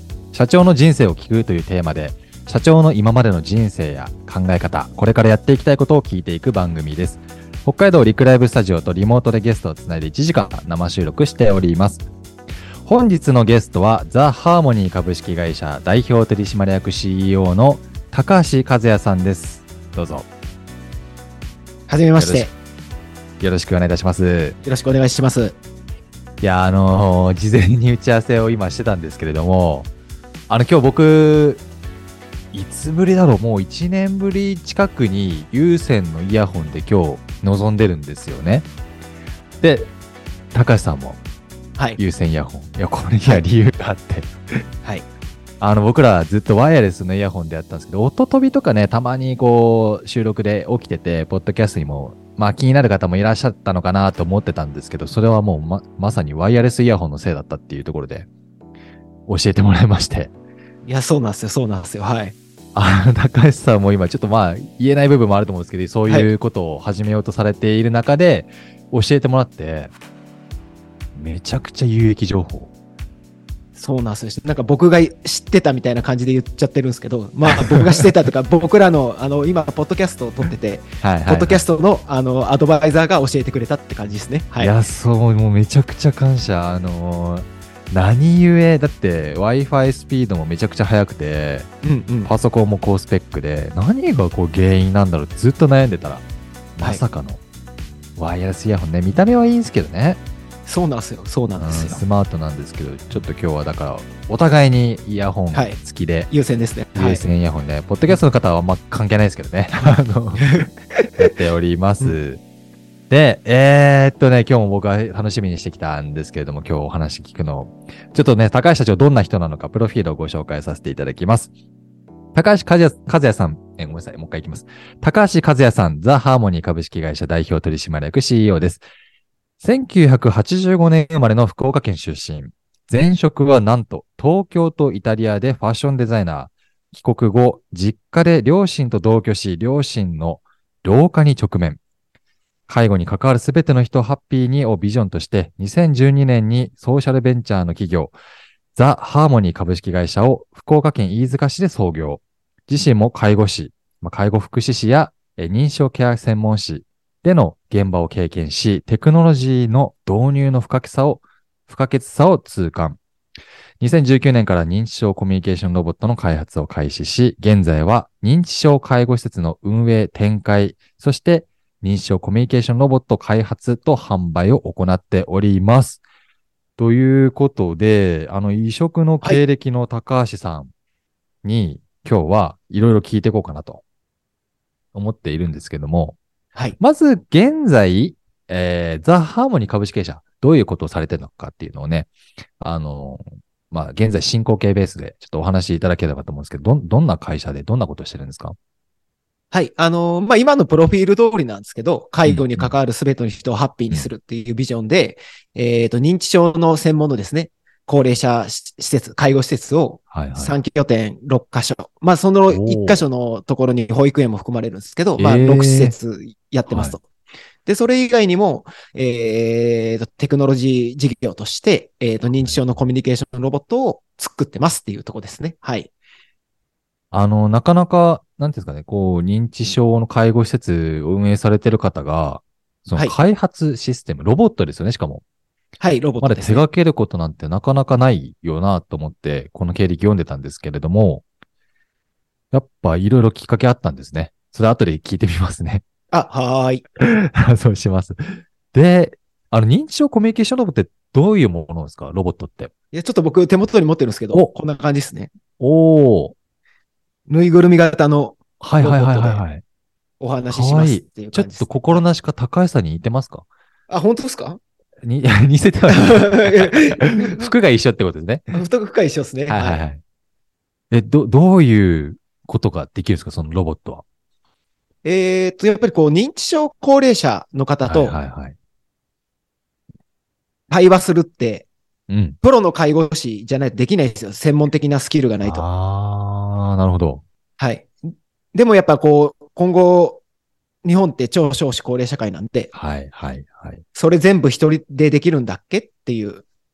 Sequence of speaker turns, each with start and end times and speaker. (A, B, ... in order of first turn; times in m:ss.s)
0:00.3-0:12.0 A
0:12.8-0:20.3 A
0:21.9-0:22.5 B
0:22.2-0:22.5 A
0:23.4-0:24.6 A
0:24.6-0:25.6 B
0:26.4-0:29.9 A
0:30.5-0:31.6 A
0:32.5-0:38.7 A
0:39.6-0:39.9 A
0:40.5-0:41.2 A
0:42.0-0:44.3 A
0:45.6-0:58.3 A
0:59.3-1:00.3 A
1:00.8-1:02.3 B
1:02.7-1:09.9 A
1:11.1-1:12.7 A
1:13.8-1:24.7 B
1:17.7-1:18.0 A
1:21.0-1:21.6 A
1:24.6-1:31.7 A
1:31.8-1:32.3 B
1:32.2-1:36.2 A
1:36.8-1:37.4 A
1:38.2-1:40.2 A
1:40.7-1:42.0 B
1:41.6-1:46.3 A
1:45.5-1:45.8 B
1:46.3-1:47.2 B
1:46.9-1:50.6 A
1:50.4-1:51.3 B
1:51.2-1:52.4 A
1:53.1-2:01.5 A
2:02.3-2:08.8 A
2:09.6-2:21.8 A
2:22.7-2:28.1 A
2:28.8-2:43.0 A
2:43.8-2:56.0 A
2:56.8-3:00.7 A
3:01.4-3:03.8 A
3:04.9-3:06.2 A
3:06.8-3:18.6 A
3:19.5-3:37.0 B
3:22.2-3:22.7 A
3:30.1-3:30.6 A
3:32.5-3:33.0 A
3:35.2-3:35.9 A
3:36.7-3:37.0 A
3:37.6-3:45.9 B
3:42.3-3:42.6 A
3:47.1-3:55.2 A
3:55.8-3:56.6 B
3:56.2-4:01.2 A
4:02.5-4:05.8 A
4:06.1-4:06.8 B
4:07.0-4:12.7 A
4:12.9-4:15.3 B
4:15.6-4:16.3 A
4:17.3-4:19.4 B
4:18.6-4:19.6 A
4:20.2-4:22.0 B
4:20.5-4:23.4 A
4:23.9-4:24.6 B
4:25.0-4:28.5 A
4:25.9-4:27.5 B
4:28.5-4:29.8 B
4:29.5-4:30.0 A
4:30.9-4:34.0 A
4:35.0-4:38.2 B
4:37.8-4:38.5 A
4:40.7-4:41.7 B
4:42.1-4:42.4 A
4:42.4-4:45.6 B
4:45.4-4:47.2 A
4:47.6-4:50.2 B
4:50.8-4:52.7 B
4:52.7-4:53.8 A
4:53.9-4:56.4 B